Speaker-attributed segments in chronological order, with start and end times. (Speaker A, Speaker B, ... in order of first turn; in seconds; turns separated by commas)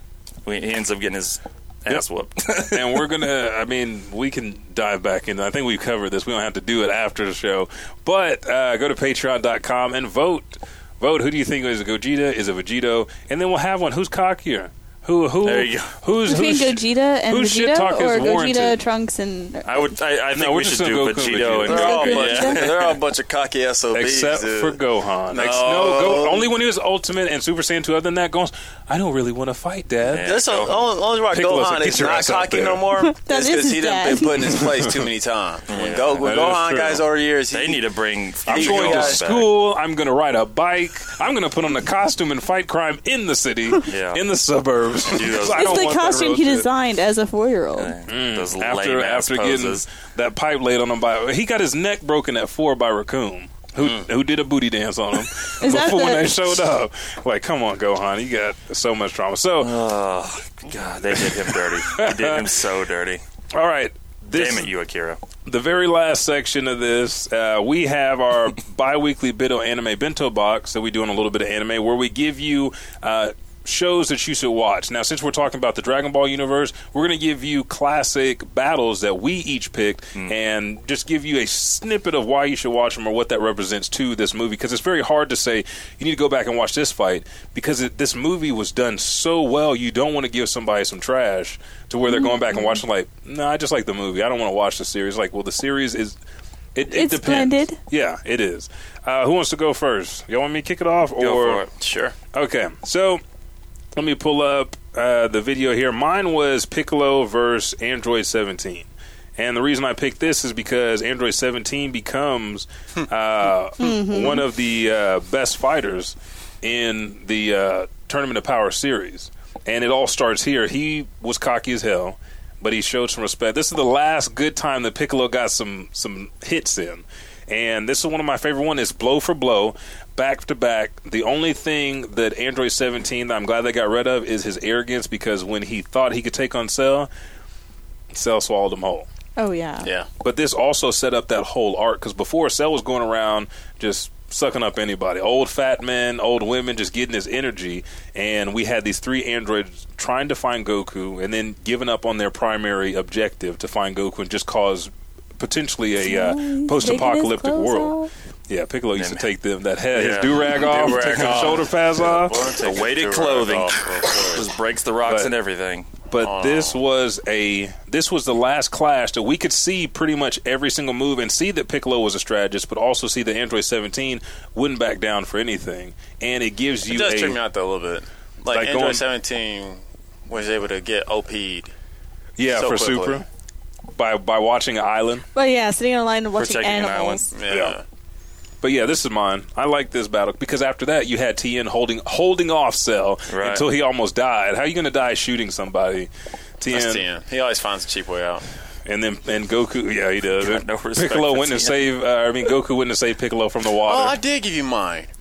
Speaker A: 0.4-3.1, Speaker B: 2.7-18.8, Speaker A: 15.4-15.9, Speaker C: 16.2-19.9, Speaker A: 19.6-23.0, Speaker B: 20.3-22.2, Speaker D: 21.6-26.5, Speaker C: 21.7-22.6, Speaker B: 23.9-30.3, Speaker A: 30.0-30.8, Speaker D: 30.2-37.8, Speaker B: 31.3-32.8, Speaker C: 33.0-34.6, Speaker A: 35.7-36.5, Speaker B: 36.2-37.0, Speaker A: 37.5-39.5, Speaker D: 38.5-39.2, Speaker B: 38.5-46.7, Speaker A: 43.8-44.2, Speaker A: 45.0-45.9, Speaker C: 45.4-47.9, Speaker A: 47.8-49.9, Speaker B: 48.1-59.7, Speaker C: 55.6-56.5, Speaker A: 59.6-63.2, Speaker B: 61.9-62.5, Speaker B: 63.5-64.7, Speaker A: 64.3-65.2, Speaker B: 65.4-96.2, Speaker C: 92.1-92.8, Speaker B: 96.7-101.6, Speaker C: 96.9-97.8, Speaker A: 101.2-101.7, Speaker D: 101.8-102.2, Speaker B: 102.3-103.2, Speaker B: 103.9-137.1, Speaker C: 113.8-114.4, Speaker B: 138.1-139.1, Speaker C: 139.4-139.9, Speaker D: 139.8-140.1, Speaker B: 140.2-157.9, Speaker C: 156.0-158.1, Speaker B: 158.5-162.5, Speaker A: 158.9-159.3, Speaker A: 159.9-161.6, Speaker D: 160.5-164.5, Speaker A: 162.6-165.9, Speaker B: 165.1-165.3, Speaker B: 166.1-177.4, Speaker D: 166.2-166.8, Speaker D: 176.9-181.7, Speaker B: 178.5-179.0, Speaker B: 182.4-183.2, Speaker D: 182.5-183.2, Speaker B: 183.9-185.2, Speaker C: 185.3-187.3, Speaker A: 186.3-187.2, Speaker D: 187.3-187.8, Speaker B: 187.5-187.7, Speaker B: 188.6-197.0, Speaker A: 193.3-193.6, Speaker D: 196.7-198.4, Speaker B: 198.8-204.2, Speaker A: 200.4-201.9, Speaker D: 203.8-205.1